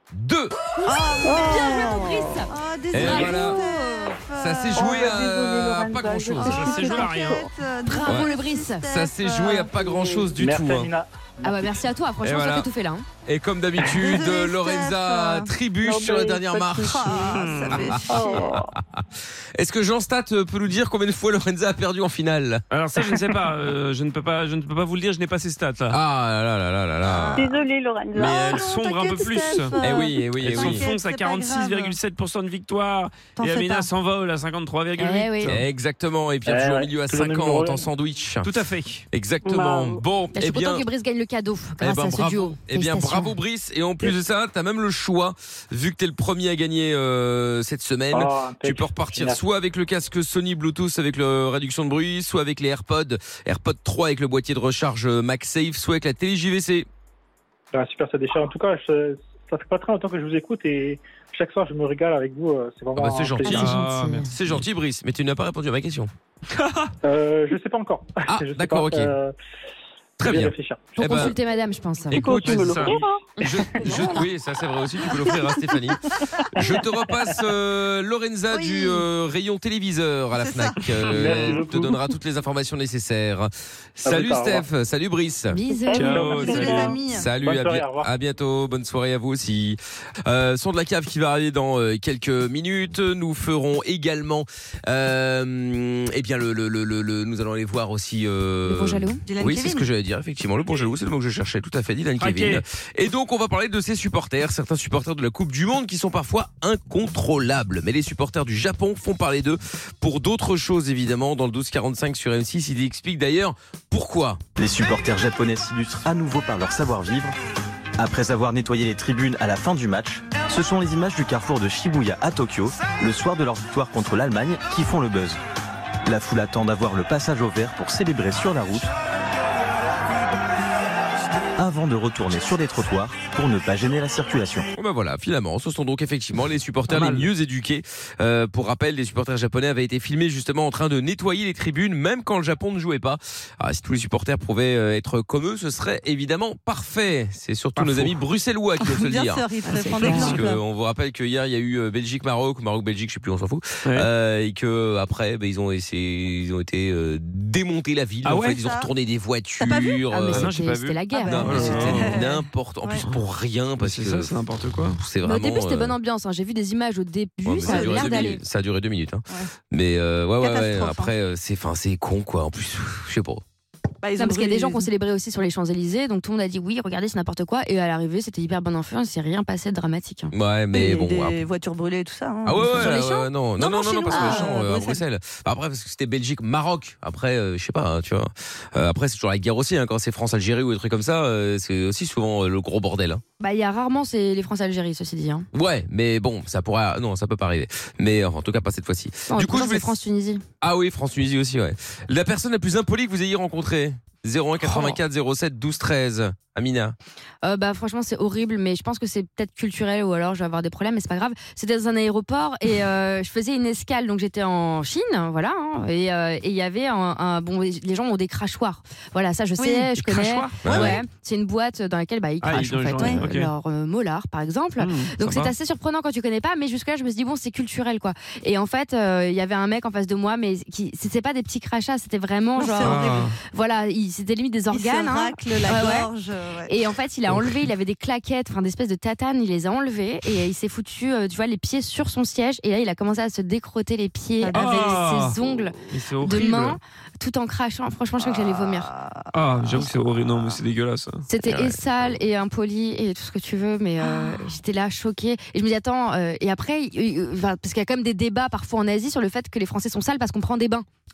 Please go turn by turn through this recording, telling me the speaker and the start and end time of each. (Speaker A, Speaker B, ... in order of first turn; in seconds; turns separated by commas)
Speaker A: 0.1-1.0, Speaker B: 0.8-5.1, Speaker C: 1.2-2.1, Speaker D: 1.3-3.3, Speaker A: 2.9-3.6, Speaker C: 3.3-3.6, Speaker A: 4.4-6.8, Speaker C: 4.7-7.5, Speaker E: 6.3-7.4, Speaker B: 6.5-9.8, Speaker D: 7.8-8.9, Speaker A: 8.0-8.3, Speaker A: 8.8-10.9, Speaker F: 10.3-11.7, Speaker D: 11.4-13.1, Speaker A: 12.2-12.7, Speaker A: 13.2-19.0, Speaker B: 13.8-15.5, Speaker C: 15.8-18.7, Speaker B: 16.8-18.5, Speaker A: 19.6-22.6, Speaker E: 22.7-26.0, Speaker A: 25.9-27.5, Speaker B: 27.1-27.5, Speaker C: 27.4-28.5, Speaker B: 28.1-32.0, Speaker E: 28.2-35.6, Speaker A: 29.8-30.9, Speaker B: 33.4-33.9, Speaker D: 35.0-35.6, Speaker A: 35.5-38.5, Speaker F: 36.4-37.9, Speaker E: 38.4-39.0, Speaker A: 39.1-40.9, Speaker C: 39.4-40.0, Speaker D: 40.3-43.4, Speaker A: 41.8-56.9, Speaker F: 48.1-49.4, Speaker F: 57.7-63.6, Speaker A: 62.9-66.1, Speaker E: 63.4-64.3, Speaker D: 63.5-64.3, Speaker E: 66.5-66.9, Speaker F: 67.0-69.3, Speaker A: 68.3-69.1, Speaker A: 70.2-71.4, Speaker F: 70.2-71.1, Speaker D: 71.0-72.2, Speaker E: 72.1-73.0, Speaker A: 72.1-85.6, Speaker C: 72.1-73.3, Speaker B: 78.5-79.0, Speaker B: 80.3-80.8, Speaker F: 81.1-82.0, Speaker F: 84.0-84.7, Speaker D: 85.5-86.5, Speaker C: 85.9-86.8, Speaker E: 85.9-87.0, Speaker F: 86.1-88.1, Speaker B: 86.4-87.3, Speaker A: 87.1-114.4, Speaker D: 98.7-99.2, Speaker B: 99.2-99.9, Speaker E: 102.2-102.6, Speaker G: 114.6-117.3, Speaker G: 118.0-125.4, Speaker G: 126.0-128.9, Speaker G: 131.6-134.7, Speaker A: 134.7-160.5, Speaker E: 136.9-137.3, Speaker E: 147.8-148.2, Speaker B: 148.8-150.6, Speaker D: 149.7-150.4, Speaker E: 158.2-158.6, Speaker B: 158.6-158.9, Speaker B: 159.6-160.0, Speaker D: 160.1-161.8, Speaker E: 160.3-162.2, Speaker B: 161.1-163.0, Speaker A: 161.2-164.3, Speaker E: 163.8-165.0, Speaker A: 165.0-166.0, Speaker D: 165.2-168.4, Speaker A: 167.4-173.4, Speaker B: 167.6-168.3, Speaker B: 170.4-171.1, Speaker B: 174.0-174.9, Speaker D: 174.2-180.3, Speaker A: 180.3-181.4, Speaker B: 180.7-183.1, Speaker A: 182.4-193.2, Speaker D: 182.7-184.6, Speaker B: 183.7-185.0, Speaker D: 193.4-195.4, Speaker A: 195.5-200.0, Speaker D: 199.3-200.4, Speaker A: 200.6-206.9, Speaker D: 207.4-236.1, Speaker B: 219.6-221.0, Speaker E: 220.0-221.0, Speaker A: 220.6-221.0, Speaker E: 222.4-223.5, Speaker B: 223.0-223.3, Speaker E: 224.8-225.5, Speaker B: 232.6-233.3, Speaker E: 232.8-233.4, Speaker B: 234.7-236.8, Speaker D: 236.7-248.9, Speaker B: 244.4-245.1, Speaker E: 244.5-245.4, Speaker E: 245.9-246.8, Speaker B: 248.2-249.9, Speaker E: 249.3-251.3, Speaker D: 251.3-260.9, Speaker A: 251.4-252.1, Speaker B: 254.0-254.5